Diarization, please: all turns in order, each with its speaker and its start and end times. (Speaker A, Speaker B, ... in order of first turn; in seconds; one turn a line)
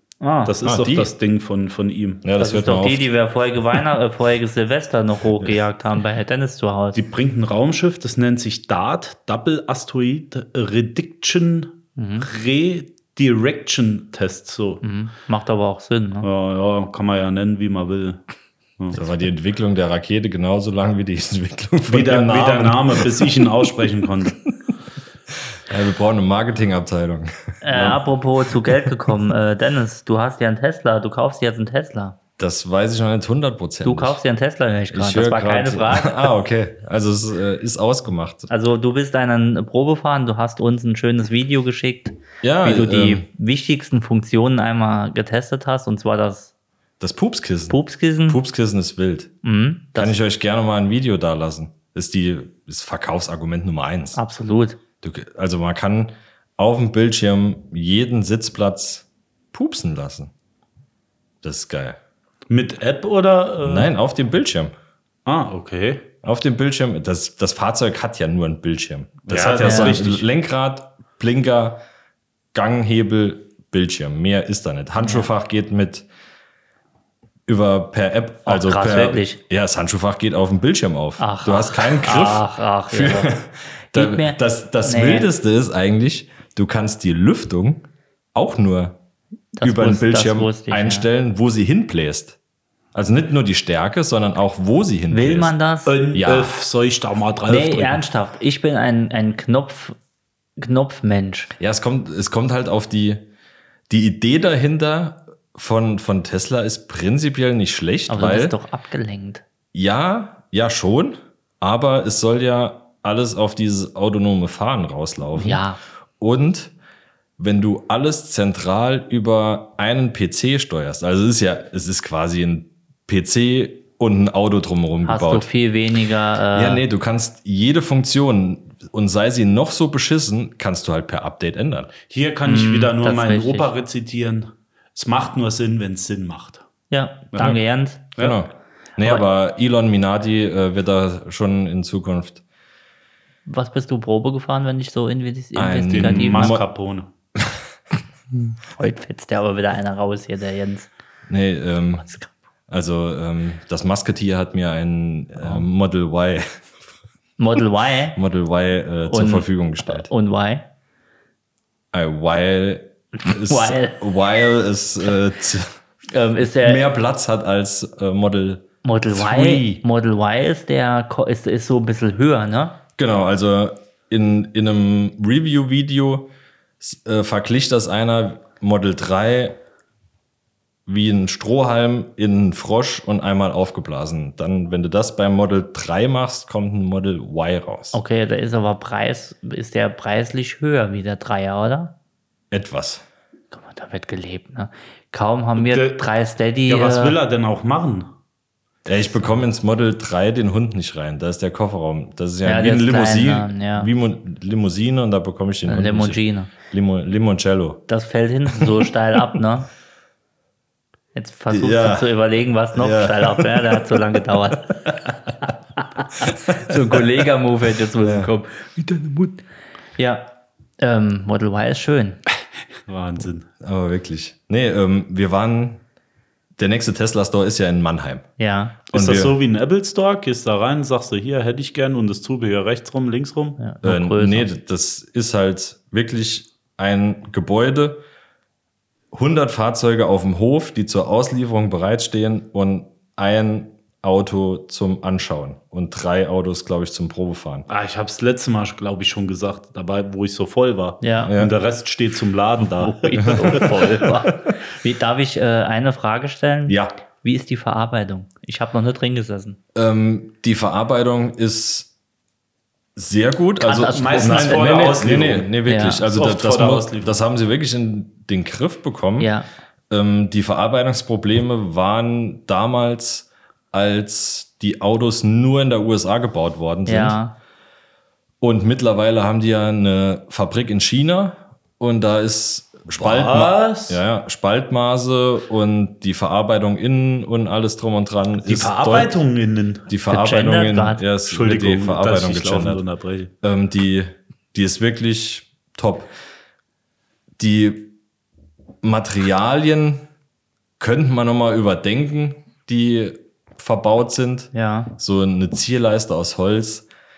Speaker A: 0.2-0.5
Speaker B: 0.5-2.2
Speaker C: 0.7-1.1
Speaker C: 2.2-3.1
Speaker A: 2.4-7.0
Speaker B: 6.9-14.8
Speaker A: 12.0-12.3
Speaker A: 14.8-16.3
Speaker B: 16.2-18.2
Speaker C: 18.9-23.5
Speaker B: 21.9-24.4
Speaker C: 24.3-24.7
Speaker C: 25.7-28.0
Speaker A: 27.6-32.2
Speaker B: 27.7-28.0
Speaker C: 32.4-34.2
Speaker A: 33.8-36.3
Speaker C: 34.9-38.5
Speaker A: 38.5-46.5
Speaker C: 42.4-43.3
Speaker C: 47.0-49.3
Speaker A: 47.7-48.4
Speaker A: 49.4-50.2
Speaker C: 50.0-54.2
Speaker A: 54.1-54.8
Speaker C: 55.0-60.3
Speaker C: 61.4-62.0
Speaker B: 62.5-63.9
Speaker C: 63.6-64.7
Speaker B: 65.3-66.1
Speaker C: 66.2-71.8
Speaker B: 69.3-70.3
Speaker A: 69.6-69.9
Speaker C: 72.5-76.1
Speaker A: 75.0-75.3
Speaker C: 77.5-89.0
Speaker A: 78.5-79.4
Speaker A: 81.2-83.3
Speaker A: 83.9-85.3
Speaker A: 89.5-91.1
Speaker C: 89.6-92.4
Speaker C: 92.9-95.5
Speaker A: 95.1-96.0
Speaker B: 95.9-98.0
Speaker C: 96.1-96.5
Speaker A: 97.5-100.0
Speaker A: 100.6-101.5
Speaker C: 101.6-103.3
Speaker C: 103.9-108.5
Speaker A: 108.1-109.4
Speaker C: 109.7-115.6
Speaker A: 115.4-115.8
Speaker C: 116.2-116.7
Speaker C: 117.4-125.5
Speaker A: 125.0-126.8
Speaker C: 126.5-131.9
Speaker B: 132.1-136.6
Speaker A: 132.5-133.7
Speaker A: 136.9-138.1
Speaker C: 138.2-142.4
Speaker A: 143.5-146.6
Speaker C: 145.6-146.7
Speaker B: 145.9-147.1
Speaker A: 148.3-150.9
Speaker C: 151.3-152.1
Speaker C: 152.7-156.6
Speaker A: 157.4-158.2
Speaker C: 158.2-160.1
Speaker A: 159.1-160.7
Speaker C: 161.9-165.8
Speaker A: 163.2-164.0
Speaker A: 166.1-166.9
Speaker C: 166.6-169.8
Speaker A: 168.8-172.8
Speaker C: 173.0-176.3
Speaker C: 176.8-179.6
Speaker C: 180.9-188.0
Speaker A: 187.9-191.9
Speaker C: 192.5-193.0
Speaker A: 193.5-197.2
Speaker B: 195.6-196.0
Speaker B: 196.7-198.1
Speaker C: 198.8-207.8
Speaker A: 202.4-203.9
Speaker A: 205.7-206.5
Speaker A: 207.9-209.7
Speaker A: 211.2-214.8
Speaker C: 211.5-212.1
Speaker C: 212.7-213.9
Speaker A: 216.0-219.4
Speaker C: 216.7-217.0
Speaker C: 218.0-218.3
Speaker A: 220.0-222.2
Speaker B: 222.9-223.5
Speaker C: 223.6-225.8
Speaker C: 226.6-228.3
Speaker A: 228.4-228.8
Speaker B: 228.9-233.6
Speaker C: 228.9-229.3
Speaker A: 233.6-234.5
Speaker C: 233.8-238.0
Speaker C: 239.1-247.7
Speaker B: 247.7-253.7
Speaker A: 251.0-251.3
Speaker C: 251.3-251.5
Speaker A: 252.6-259.6
Speaker C: 253.2-254.3
Speaker C: 256.7-256.9
Speaker C: 259.8-261.9
Speaker C: 263.0-269.3
Speaker A: 263.6-264.9
Speaker B: 263.9-267.2
Speaker A: 265.7-266.0
Speaker A: 269.2-269.5
Speaker C: 269.9-277.2
Speaker A: 276.9-277.4
Speaker C: 278.4-289.2
Speaker B: 283.0-284.0
Speaker B: 288.4-289.9
Speaker C: 289.9-292.8
Speaker A: 290.1-291.0
Speaker B: 291.3-293.3
Speaker C: 293.4-296.1
Speaker C: 297.4-297.9
Speaker C: 298.8-300.1
Speaker C: 300.8-306.9
Speaker A: 304.5-304.9